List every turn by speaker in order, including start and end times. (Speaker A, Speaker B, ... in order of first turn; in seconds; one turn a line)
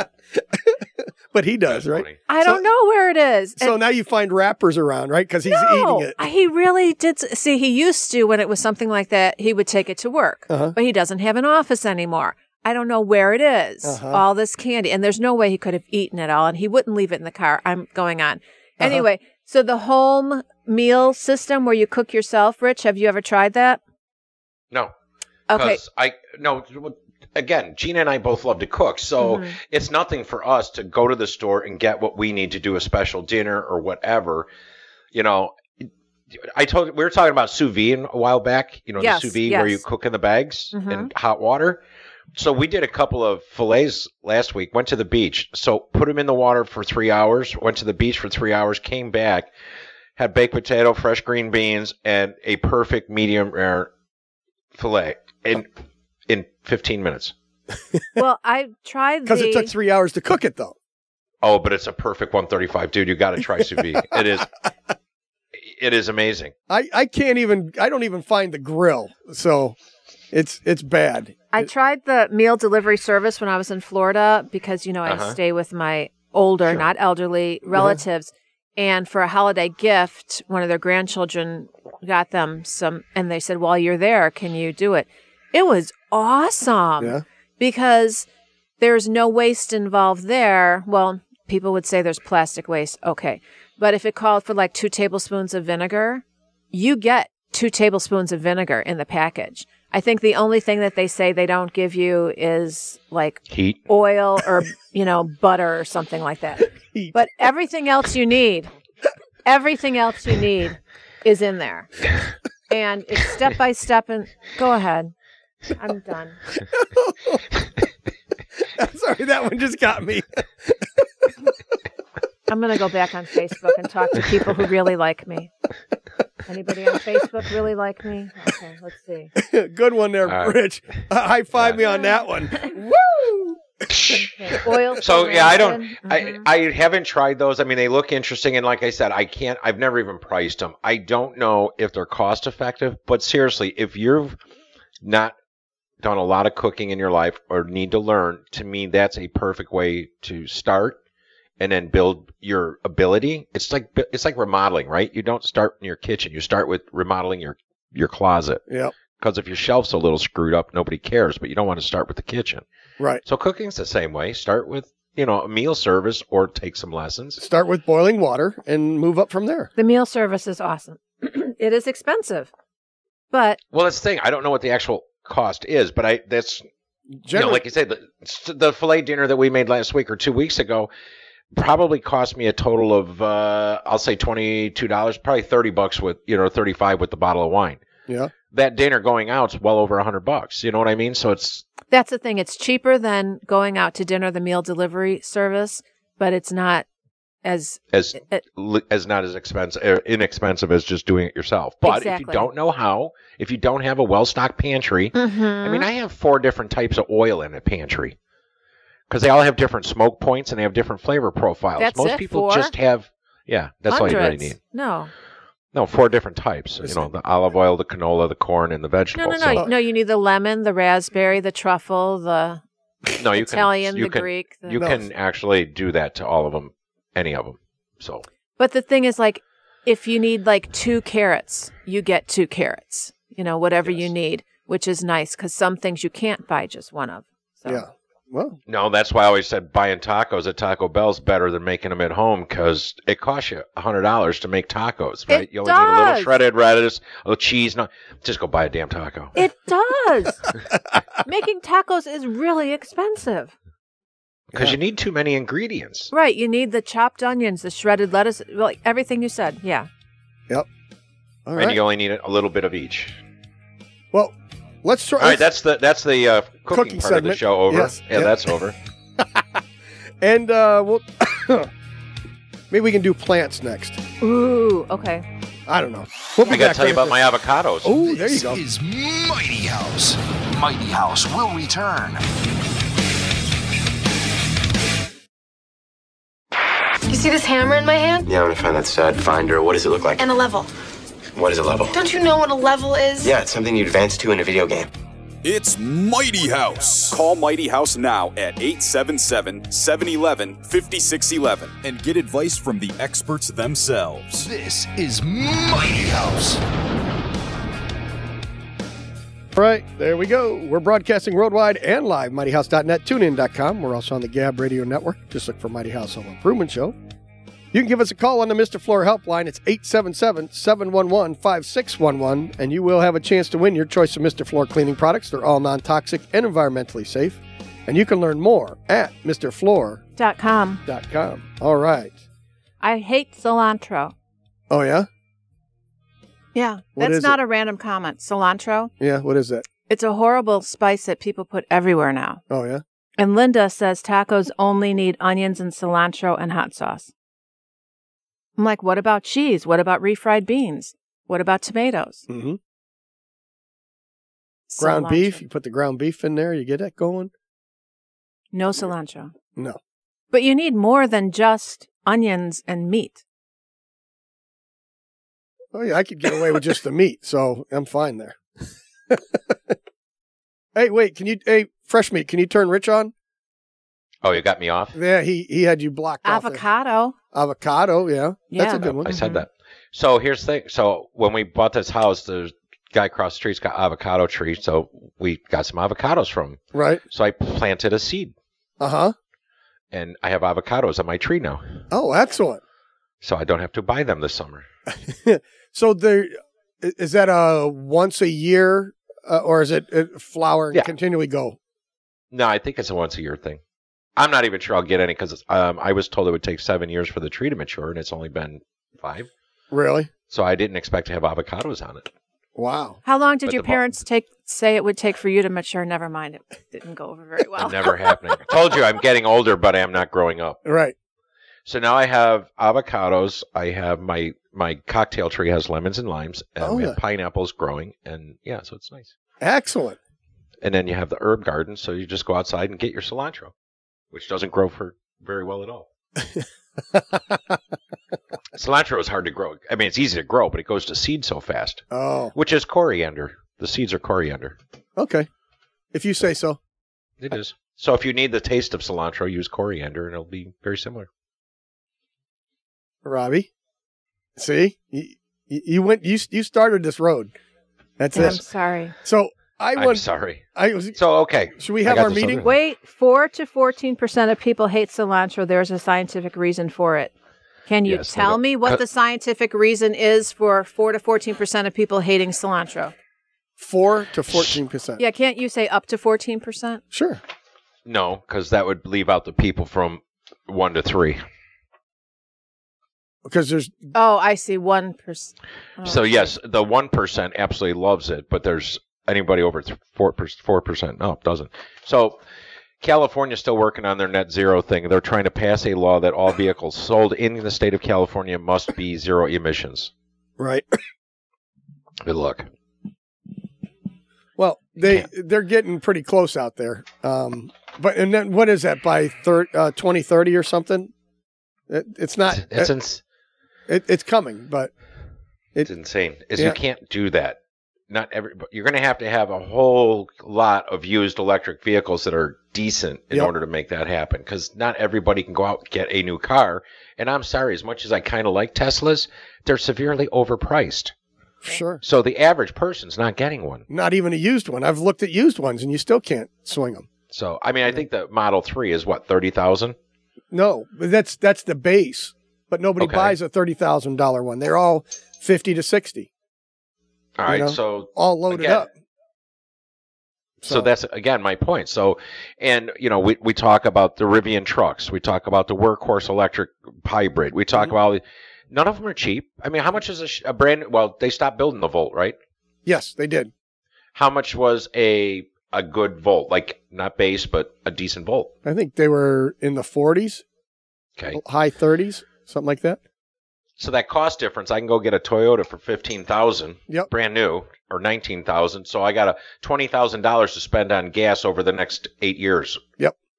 Speaker A: 0.3-2.6
Speaker B: 1.7-2.2
Speaker C: 2.3-3.8
Speaker A: 3.6-6.2
Speaker C: 5.5-23.8
Speaker A: 10.5-10.7
Speaker A: 13.8-14.2
Speaker C: 25.5-25.8
Speaker B: 25.5-34.5
Speaker C: 29.2-29.5
Speaker B: 35.1-35.9
Speaker B: 36.4-41.8
Speaker C: 39.0-39.8
Speaker C: 40.7-41.1
Speaker B: 42.3-49.5
Speaker B: 50.2-53.9
Speaker B: 54.8-55.7
Speaker B: 56.3-57.3
Speaker C: 58.1-59.7
Speaker A: 59.2-60.7
Speaker B: 61.4-64.5
Speaker A: 63.9-64.2
Speaker B: 65.7-66.5
Speaker A: 66.7-69.8
Speaker A: 70.3-71.7
Speaker C: 71.5-88.2
Speaker B: 75.0-75.4
Speaker A: 77.7-78.0
Speaker C: 88.8-108.7
Speaker B: 103.5-103.8
Speaker C: 109.4-111.9
Speaker C: 112.7-115.1
Speaker C: 115.7-116.5
Speaker A: 116.7-117.4
Speaker A: 118.7-120.9
Speaker C: 122.5-125.5
Speaker C: 126.5-129.3
Speaker A: 129.3-133.5
Speaker B: 130.2-130.6
Speaker B: 131.5-131.8
Speaker B: 133.9-134.2
Speaker C: 134.0-136.4
Speaker B: 135.0-144.4
Speaker B: 145.0-145.3
Speaker B: 146.0-151.0
Speaker B: 151.6-158.6
Speaker A: 158.7-158.9
Speaker B: 159.2-162.6
Speaker B: 163.2-167.4
Speaker A: 167.4-169.7
Speaker C: 169.8-172.5
Speaker C: 173.3-173.6
Speaker B: 173.7-176.6
Speaker A: 177.2-177.6
Speaker B: 177.3-180.9
Speaker B: 181.5-187.8
Speaker B: 188.5-191.7
Speaker C: 191.9-196.8
Speaker C: 197.4-198.4
Speaker B: 197.9-208.2
Speaker C: 201.8-202.5
Speaker C: 205.1-205.9
Speaker B: 209.1-214.6
Speaker C: 211.8-212.7
Speaker C: 213.9-215.1
Speaker B: 215.7-219.7
Speaker A: 216.8-217.1
Speaker C: 219.1-222.6
Speaker B: 223.2-228.2
Speaker C: 223.4-224.8
Speaker A: 224.8-225.0
Speaker C: 228.6-237.8
Speaker A: 237.7-238.6
Speaker B: 238.7-249.4
Speaker C: 245.3-246.3
Speaker C: 249.3-250.4
Speaker C: 251.2-253.5
Speaker B: 254.5-256.1
Speaker C: 256.1-259.9
Speaker A: 261.4-261.8
Speaker B: 261.6-263.2
Speaker A: 264.1-265.4
Speaker B: 265.2-268.7
Speaker A: 266.7-268.4
Speaker A: 269.2-269.6
Speaker A: 270.2-271.7
Speaker A: 272.7-274.0
Speaker C: 274.2-275.2
Speaker A: 275.7-277.2
Speaker B: 276.4-277.9
Speaker A: 277.8-278.6
Speaker D: 277.9-282.2
Speaker E: 287.1-288.3
Speaker F: 288.2-290.2
Speaker E: 290.2-290.7
Speaker F: 291.4-292.0
Speaker E: 291.9-293.3
Speaker F: 293.2-294.9
Speaker G: 295.4-304.5
Speaker D: 304.4-306.6
Speaker A: 309.5-316.9
Speaker A: 317.7-330.0
Speaker C: 330.2-330.8
Speaker A: 330.9-332.2
Speaker C: 332.8-334.1
Speaker A: 334.7-335.1
Speaker C: 336.5-338.9
Speaker A: 336.9-337.4
Speaker A: 339.0-339.6
Speaker C: 339.9-342.4
Speaker A: 342.5-342.8
Speaker C: 343.2-347.1
Speaker C: 348.6-352.2
Speaker A: 352.3-352.6
Speaker C: 354.7-355.4
Speaker A: 354.8-357.3
Speaker C: 358.5-359.3
Speaker C: 360.3-363.2
Speaker A: 365.7-369.7
Speaker A: 370.7-373.1
Speaker B: 374.2-375.0
Speaker A: 374.9-376.6
Speaker C: 376.2-377.1
Speaker A: 377.3-379.1
Speaker C: 378.5-379.4
Speaker B: 379.0-388.3
Speaker A: 386.7-387.0
Speaker A: 388.8-389.1
Speaker B: 389.9-391.6
Speaker A: 391.9-392.6
Speaker B: 393.2-394.6
Speaker A: 394.9-401.6
Speaker B: 402.3-403.6
Speaker B: 404.2-409.3
Speaker A: 409.7-410.1
Speaker B: 410.3-412.1
Speaker A: 412.6-413.0
Speaker C: 413.0-418.0
Speaker B: 413.4-413.8
Speaker B: 417.6-420.6
Speaker A: 420.6-420.9
Speaker B: 421.6-429.1
Speaker A: 426.6-427.0
Speaker A: 429.4-430.0
Speaker B: 430.6-433.5
Speaker B: 434.1-435.9
Speaker A: 436.9-437.6
Speaker B: 438.5-444.6
Speaker A: 441.9-442.3
Speaker A: 445.0-445.3
Speaker A: 445.9-446.6
Speaker B: 447.2-451.1
Speaker A: 453.0-453.5
Speaker A: 454.4-457.3
Speaker A: 458.0-458.4
Speaker C: 458.1-458.9
Speaker A: 459.0-460.0
Speaker B: 459.8-460.4
Speaker A: 460.6-461.0
Speaker B: 460.9-462.5
Speaker A: 461.6-462.4
Speaker C: 462.4-467.1
Speaker C: 467.7-472.9
Speaker B: 467.9-468.8
Speaker A: 473.6-475.0
Speaker C: 475.0-476.8
Speaker A: 476.9-477.2
Speaker B: 477.9-481.2
Speaker A: 483.2-483.9
Speaker C: 483.9-486.3
Speaker B: 485.8-492.2
Speaker B: 492.8-499.9
Speaker A: 500.4-500.6
Speaker B: 502.0-502.5
Speaker A: 504.4-510.9
Speaker A: 511.7-512.7
Speaker B: 512.3-513.0
Speaker A: 513.7-514.7
Speaker B: 515.6-517.4
Speaker B: 517.9-530.9
Speaker A: 531.4-531.8
Speaker B: 531.8-533.6
Speaker A: 533.7-536.9
Speaker B: 537.1-539.8
Speaker A: 540.3-546.1
Speaker B: 542.8-543.1
Speaker B: 547.2-548.6
Speaker A: 547.3-548.7
Speaker A: 550.4-550.7
Speaker B: 550.5-562.1
Speaker A: 562.6-563.3
Speaker B: 563.9-568.3
Speaker A: 568.4-570.2
Speaker A: 571.1-572.8
Speaker B: 573.6-582.6